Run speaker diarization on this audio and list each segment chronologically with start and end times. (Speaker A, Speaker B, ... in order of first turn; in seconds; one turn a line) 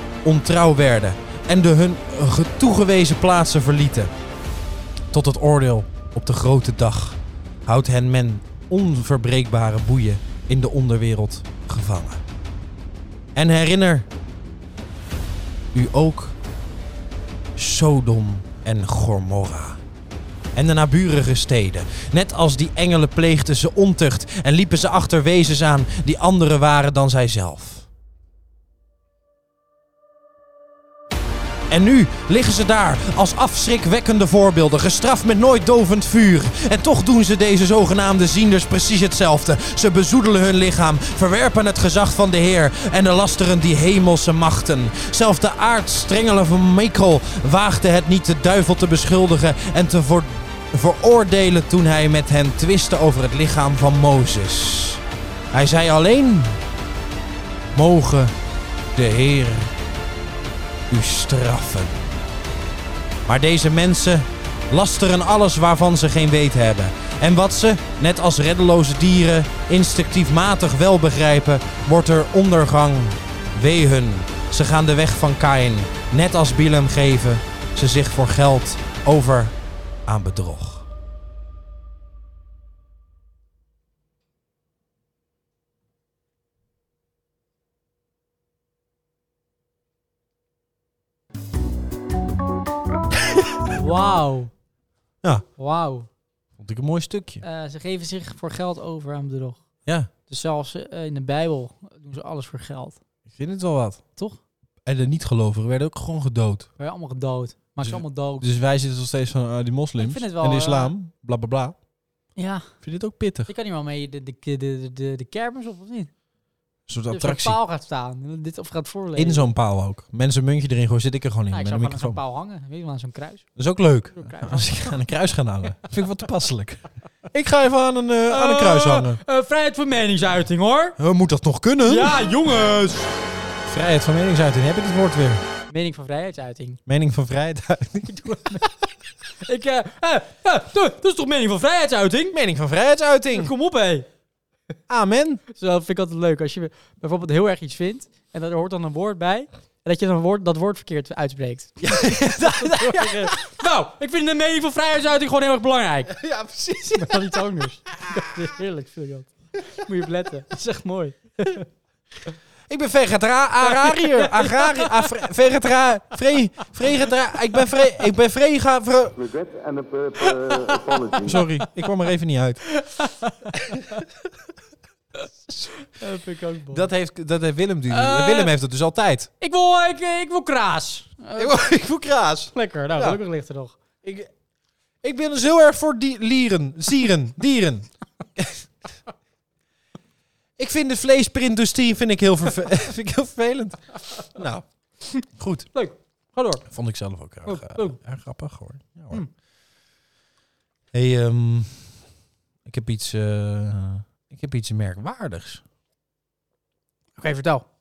Speaker A: 0.2-4.1
Speaker A: 5.1-12.2
Speaker A: 13.3-14.1
Speaker A: 15.7-16.4
Speaker A: 17.6-19.8
Speaker A: 20.5-27.9
Speaker A: 31.7-55.0
Speaker A: 55.5-56.6
Speaker A: 57.7-58.3
Speaker A: 58.9-59.7
Speaker A: 60.9-62.0
Speaker A: 63.3-79.5
Speaker A: 80.0-80.8
Speaker B: 93.7-94.5
Speaker B: 95.6-96.1
Speaker A: 96.6-97.4
Speaker B: 97.4-99.6
Speaker B: 100.3-103.0
Speaker A: 103.3-104.0
Speaker A: 104.8-106.7
Speaker B: 106.8-108.5
Speaker A: 107.8-111.8
Speaker B: 110.0-110.9
Speaker B: 112.3-112.7
Speaker A: 112.8-113.5
Speaker B: 113.5-116.1
Speaker A: 116.9-117.6
Speaker B: 117.1-119.5
Speaker A: 119.2-122.2
Speaker B: 121.5-123.5
Speaker A: 123.5-129.2
Speaker B: 124.2-124.9
Speaker B: 128.3-131.0
Speaker A: 131.0-132.2
Speaker B: 131.8-133.1
Speaker A: 133.7-135.4
Speaker B: 135.7-136.8
Speaker A: 136.9-138.6
Speaker B: 138.1-138.9
Speaker B: 139.4-142.4
Speaker A: 142.3-143.5
Speaker B: 143.3-144.1
Speaker A: 144.9-145.4
Speaker B: 145.5-156.2
Speaker A: 151.8-153.5
Speaker A: 156.1-157.4
Speaker B: 156.8-161.7
Speaker A: 157.9-158.3
Speaker A: 162.7-169.2
Speaker B: 163.6-165.1
Speaker C: 169.2-171.4
Speaker B: 171.2-171.6
Speaker A: 171.2-172.6
Speaker B: 172.7-174.0
Speaker A: 173.6-174.2
Speaker B: 175.8-176.9
Speaker A: 176.7-179.3
Speaker B: 177.9-178.5
Speaker B: 179.4-181.6
Speaker A: 181.3-183.2
Speaker B: 182.5-183.8
Speaker A: 184.0-184.3
Speaker A: 185.0-188.7
Speaker A: 190.6-195.7
Speaker B: 195.0-196.7
Speaker A: 196.7-199.2
Speaker B: 197.4-198.0
Speaker A: 200.9-202.0
Speaker A: 202.7-205.6
Speaker B: 207.2-207.6